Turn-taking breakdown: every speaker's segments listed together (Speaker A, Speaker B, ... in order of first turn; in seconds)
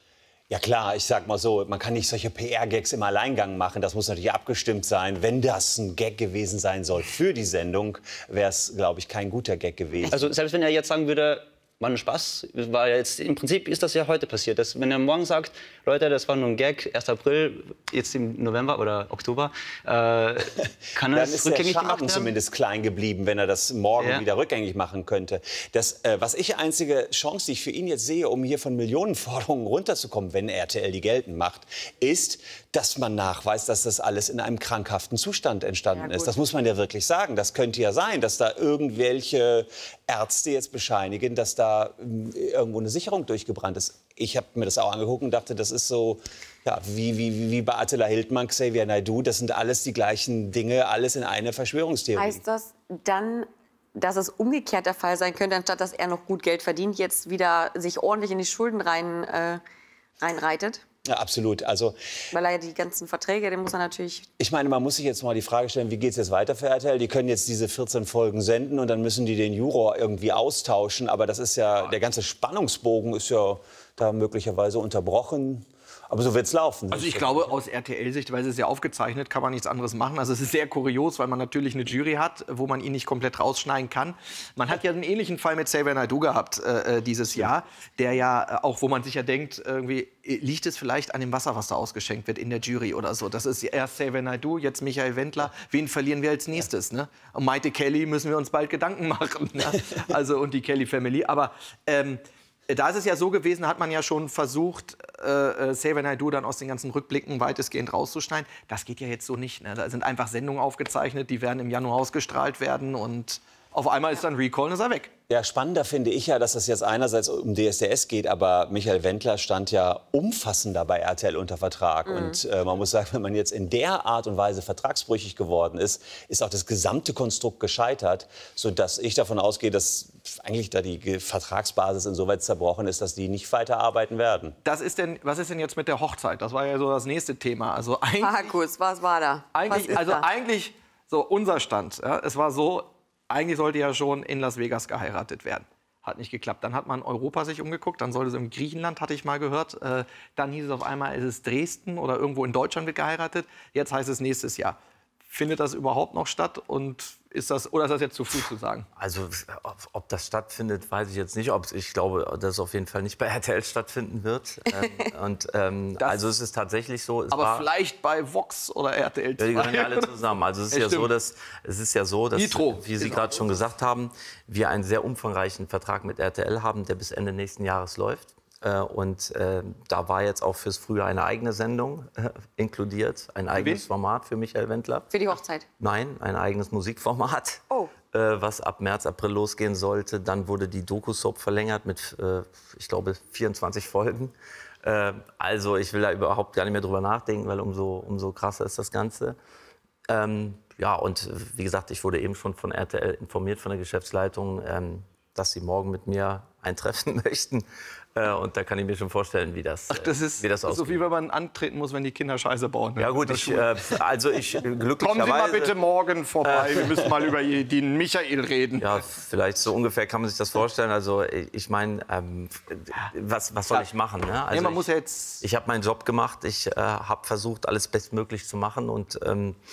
Speaker A: 0.5-10.3, 21.0-52.4, 61.1-62.0, 64.4-77.5, 115.3-134.6
Speaker B: 10.1-20.4, 21.0-22.3
Speaker C: 35.9-36.4, 52.2-59.6, 60.2-60.8, 62.3-64.3, 122.1-122.4, 138.2-140.3, 185.1-185.7
Speaker D: 76.9-115.1, 134.6-138.5, 139.5-154.8, 155.3-158.9, 166.0-166.3, 167.3-170.1, 170.7-171.1, 172.3-173.5, 183.6-183.9, 209.9-213.7, 215.0-218.9, 224.5-225.4
Speaker E: 159.0-167.7, 169.4-185.1, 185.8-199.4, 200.1-207.6, 208.2-211.0, 213.0-215.8, 216.4-217.0, 218.8-224.9, 225.4-229.6